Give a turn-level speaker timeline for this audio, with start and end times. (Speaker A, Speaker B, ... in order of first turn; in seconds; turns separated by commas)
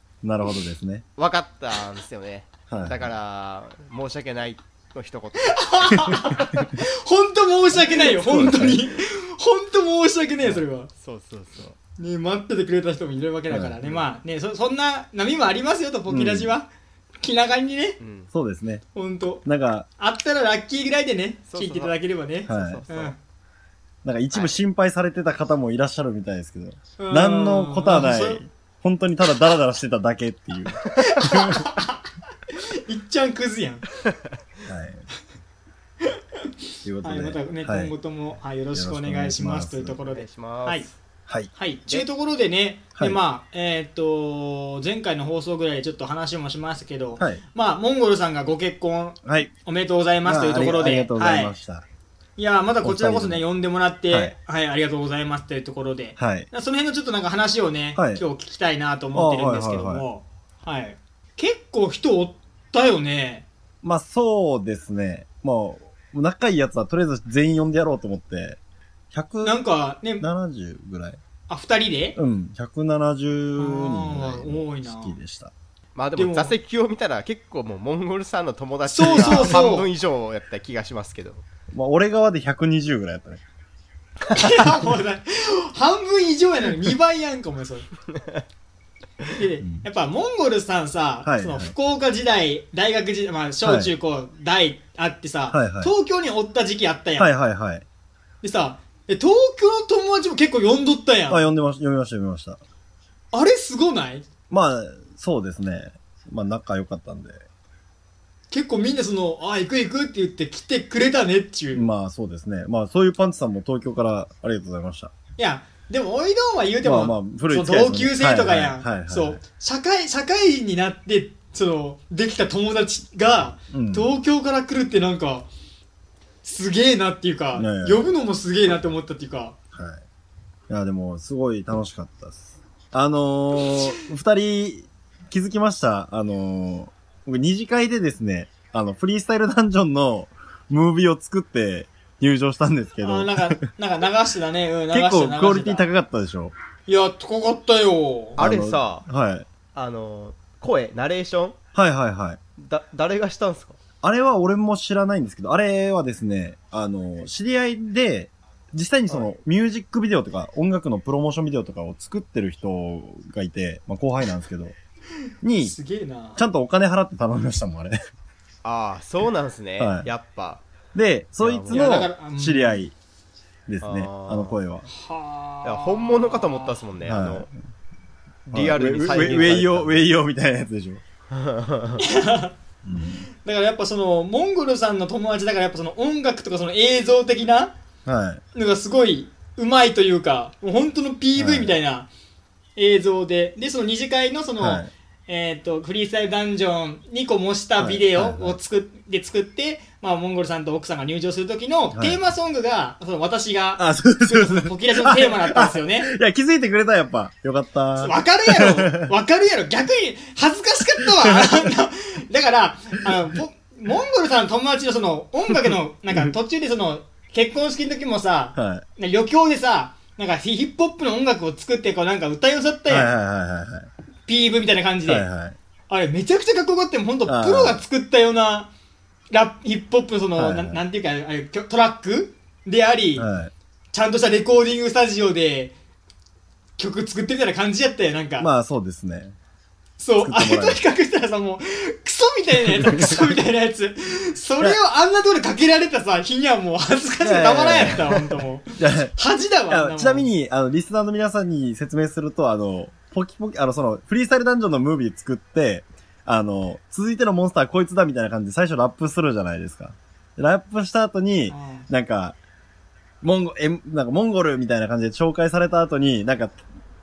Speaker A: 0.2-1.1, Speaker B: 1.2-6.6, Speaker A: 2.7-3.1, Speaker C: 5.4-10.9, Speaker A: 8.1-8.8, Speaker B: 10.4-11.8, Speaker C: 12.0-16.7, Speaker A: 13.5-13.8, Speaker A: 16.1-16.6, Speaker C: 17.2-18.0, Speaker B: 18.0-18.3, Speaker A: 18.3-18.8, Speaker C: 18.9-19.4, Speaker A: 19.4-19.9, Speaker C: 20.0-23.2, Speaker B: 21.5-21.9, Speaker A: 22.5-22.8, Speaker B: 22.5-23.1, Speaker A: 24.0-31.7, Speaker C: 27.0-28.4, Speaker C: 30.9-32.0, Speaker C: 32.7-33.8, Speaker A: 34.7-35.0, Speaker A: 36.8-37.9, Speaker C: 37.0-40.9, Speaker A: 38.7-40.0, Speaker B: 40.1-40.9, Speaker C: 41.5-51.5, Speaker A: 49.2-49.5, Speaker A: 50.2-51.9, Speaker C: 52.4-63.5, Speaker A: 52.8-53.4, Speaker A: 56.2-56.5, Speaker A: 58.0-58.2, Speaker A: 59.1-60.0, Speaker A: 63.8-68.6, Speaker A: 69.1-69.6, Speaker C: 69.4-70.3, Speaker A: 70.2-71.2, Speaker C: 71.5-72.2, Speaker A: 72.2-75.5, Speaker C: 73.6-75.2, Speaker B: 76.0-81.5, Speaker C: 76.2-76.5, Speaker C: 78.9-79.9, Speaker A: 79.1-79.6, Speaker A: 81.7-83.4, Speaker C: 84.3-87.9, Speaker A: 84.4-84.8, Speaker B: 88.1-88.4, Speaker C: 89.3-97.3, Speaker A: 91.2-91.7, Speaker A: 93.6-93.9, Speaker A: 95.5-95.9, Speaker A: 97.2-97.8, Speaker C: 98.4-101.4, Speaker A: 101.3-102.6, Speaker C: 103.3-104.3, Speaker A: 104.5-107.4, Speaker C: 108.5-111.9, Speaker A: 111.7-115.1, Speaker C: 115.4-125.5, Speaker A: 116.8-119.4, Speaker A: 123.7-124.1, Speaker C: 126.4-129.6, Speaker A: 127.5-128.1, Speaker A: 129.7-130.0, Speaker A: 130.7-143.6, Speaker C: 143.0-145.8, Speaker A: 144.9-146.5, Speaker C: 146.9-148.4, Speaker B: 148.4-149.1, Speaker A: 148.4-149.4, Speaker B: 149.7-151.6, Speaker A: 151.7-152.4, Speaker B: 152.6-153.8, Speaker A: 154.0-164.8, Speaker A: 165.4-165.8, Speaker C: 165.6-166.4, Speaker A: 166.3-168.0, Speaker B: 168.6-170.6, Speaker A: 169.8-170.1, Speaker A: 170.9-172.9, Speaker B: 171.4-172.0, Speaker C: 171.7-172.8, Speaker A: 173.7-174.9, Speaker B: 173.8-174.6, Speaker C: 174.9-176.8, Speaker B: 175.6-177.5, Speaker A: 177.0-177.5, Speaker B: 178.5-180.1, Speaker A: 178.5-181.0, Speaker B: 181.3-182.0, Speaker C: 182.0-182.5, Speaker A: 182.8-183.3, Speaker C: 183.4-187.7, Speaker A: 188.1-188.4, Speaker C: 188.5-192.1, Speaker A: 191.3-191.8, Speaker C: 192.8-206.1, Speaker A: 194.6-194.9, Speaker A: 197.8-198.6, Speaker A: 201.9-202.2, Speaker A: 203.8-209.1, Speaker C: 208.0-223.1, Speaker A: 211.1-211.7, Speaker A: 215.6-216.3, Speaker A: 218.6-218.8, Speaker A: 222.9-223.9, Speaker C: 224.3-225.2, Speaker A: 225.1-225.6, Speaker C: 225.9-228.7, Speaker A: 227.2-227.8, Speaker C: 229.3-233.3, Speaker A: 230.3-230.8, Speaker A: 233.2-233.5, Speaker C: 233.9-235.7, Speaker C: 236.8-238.5, Speaker A: 238.4-239.3, Speaker C: 240.0-250.3, Speaker A: 240.2-240.8, Speaker A: 242.7-243.3, Speaker A: 247.2-248.1, Speaker A: 248.8-249.1, Speaker A: 249.7-262.4, Speaker C: 261.5-261.9, Speaker A: 263.2-266.6